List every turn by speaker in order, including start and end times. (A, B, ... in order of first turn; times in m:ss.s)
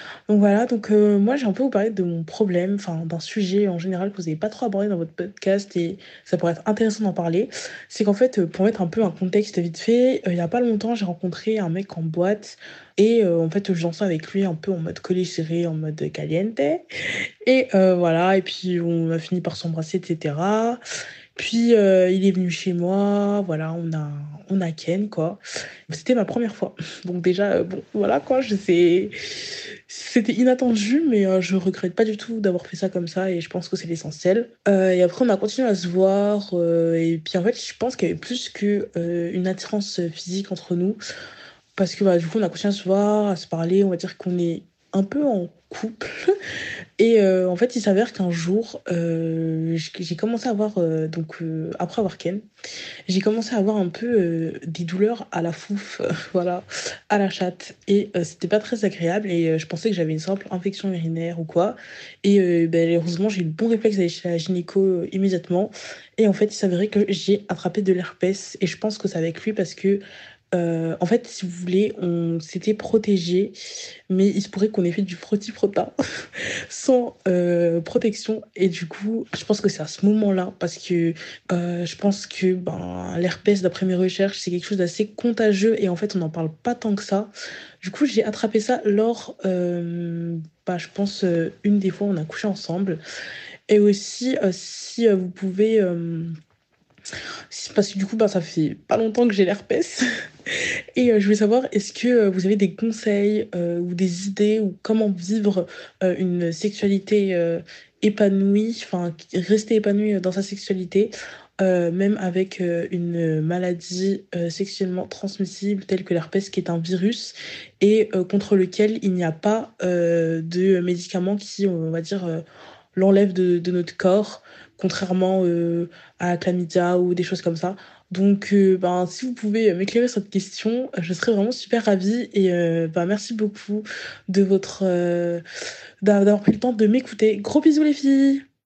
0:00.3-0:16.8 A
0:17.4-0:20.8 A
0:21.4-0:29.1 A
0:29.9-0:41.0 A
0:41.8-0:46.4 A
0:47.0-0:52.4 A
0:53.1-1:13.6 A
1:14.1-1:15.9 A
1:16.7-1:33.0 A
1:33.7-1:36.3 A
1:37.5-2:02.4 A
2:03.0-2:15.4 A
2:16.0-2:18.4 A